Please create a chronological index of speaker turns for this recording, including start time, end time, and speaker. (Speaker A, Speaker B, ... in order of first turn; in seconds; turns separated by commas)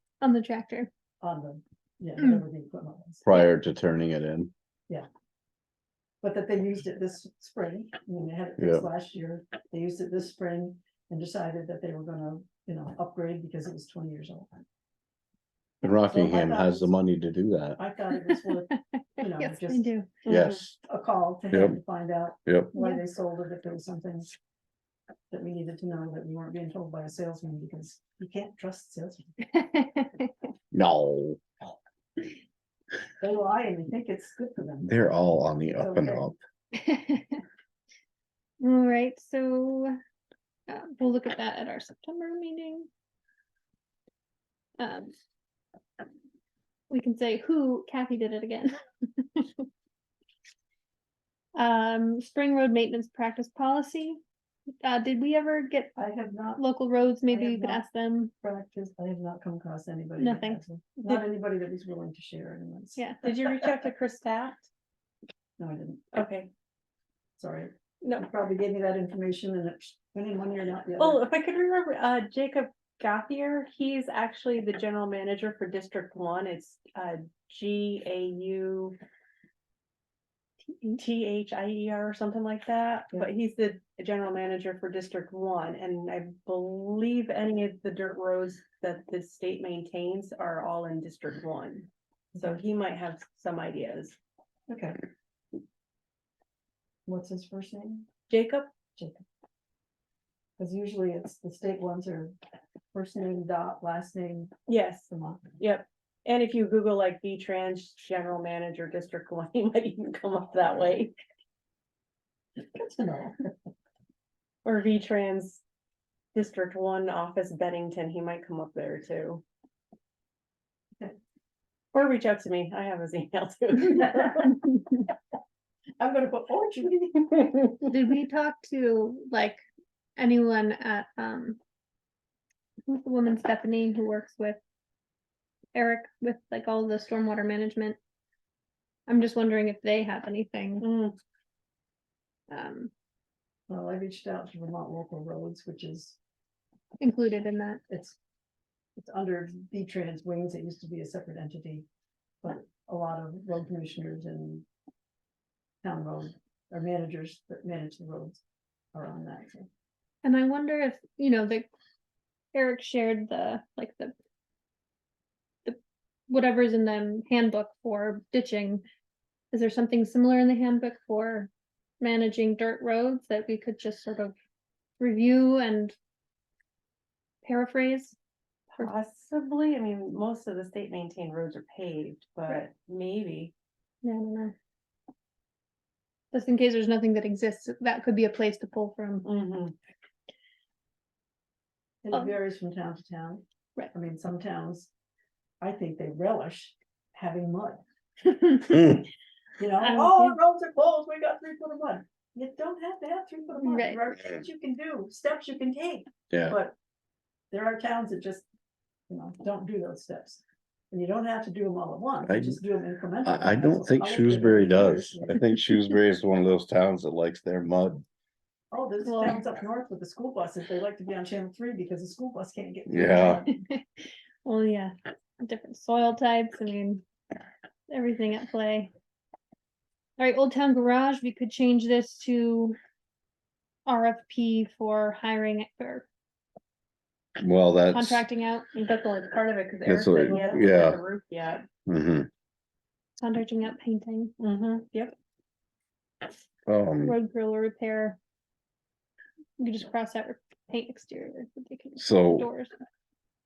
Speaker A: 0.2-0.9, Speaker B: 1.2-3.2, Speaker A: 2.2-2.4, Speaker C: 3.2-4.5, Speaker B: 6.2-14.5, Speaker C: 8.6-8.8, Speaker C: 15.8-17.8, Speaker B: 16.1-16.9, Speaker B: 17.8-19.9, Speaker A: 18.3-20.3, Speaker D: 20.3-20.6, Speaker C: 20.3-20.8, Speaker B: 20.8-24.3, Speaker C: 21.5-21.8, Speaker A: 22.8-23.0, Speaker B: 25.3-29.4, Speaker A: 29.5-30.3, Speaker C: 30.7-31.4, Speaker B: 33.2-34.9, Speaker C: 34.8-36.4, Speaker B: 35.7-36.3, Speaker A: 36.7-37.4, Speaker A: 38.6-40.0, Speaker A: 40.7-42.9, Speaker A: 44.8-45.1, Speaker A: 46.9-49.7, Speaker A: 51.5-54.2, Speaker A: 54.8-56.0, Speaker B: 56.0-56.6, Speaker A: 56.5-58.3, Speaker B: 57.3-57.8, Speaker B: 58.4-63.6, Speaker A: 60.2-60.6, Speaker A: 63.0-63.2, Speaker D: 63.2-64.7, Speaker B: 65.6-66.0, Speaker D: 66.1-66.5, Speaker B: 67.4-71.2, Speaker D: 71.0-79.0, Speaker D: 80.8-94.2, Speaker B: 94.7-95.0, Speaker B: 97.0-98.1, Speaker D: 98.3-98.7, Speaker B: 99.0-99.2, Speaker B: 100.6-102.3, Speaker B: 102.9-104.5, Speaker D: 104.7-111.2, Speaker B: 105.1-105.5, Speaker B: 112.6-113.5, Speaker D: 114.6-115.6, Speaker D: 116.3-119.4, Speaker D: 121.9-124.6, Speaker B: 126.0-127.9, Speaker A: 127.9-129.6, Speaker A: 130.2-131.6, Speaker A: 132.9-134.6, Speaker A: 135.7-138.0, Speaker A: 139.1-140.9, Speaker D: 140.8-141.2, Speaker A: 142.5-142.9, Speaker B: 143.7-146.2, Speaker A: 147.0-147.8, Speaker B: 147.9-148.2, Speaker B: 149.0-151.8, Speaker B: 152.4-154.6, Speaker B: 155.8-158.4, Speaker B: 158.9-159.7, Speaker A: 160.2-161.7, Speaker A: 162.5-164.1, Speaker A: 166.3-168.8, Speaker A: 169.5-171.5, Speaker A: 172.0-174.3, Speaker A: 175.0-175.9, Speaker A: 177.4-178.2, Speaker D: 178.7-183.5, Speaker A: 184.0-184.5, Speaker A: 186.3-189.3, Speaker D: 189.2-189.7, Speaker B: 192.0-194.9, Speaker A: 192.1-192.4, Speaker B: 195.6-197.8, Speaker B: 198.6-198.8, Speaker C: 198.7-199.1, Speaker B: 199.6-206.7, Speaker A: 199.8-200.4, Speaker A: 203.6-204.0, Speaker C: 206.3-206.6, Speaker B: 207.5-208.4, Speaker B: 209.1-215.4, Speaker C: 212.2-212.6, Speaker C: 213.2-218.0, Speaker B: 218.7-223.6, Speaker A: 219.0-219.4, Speaker C: 222.9-223.4, Speaker A: 223.5-227.0, Speaker A: 227.9-228.9, Speaker A: 230.2-232.8, Speaker A: 233.8-236.1, Speaker C: 237.4-238.2, Speaker A: 237.9-238.7, Speaker D: 238.7-241.7, Speaker C: 239.8-241.0, Speaker B: 240.2-240.6, Speaker C: 241.8-242.3, Speaker A: 243.2-244.3, Speaker D: 244.4-245.1, Speaker C: 246.7-247.2, Speaker A: 247.0-248.2, Speaker A: 249.6-252.7, Speaker C: 252.0-252.5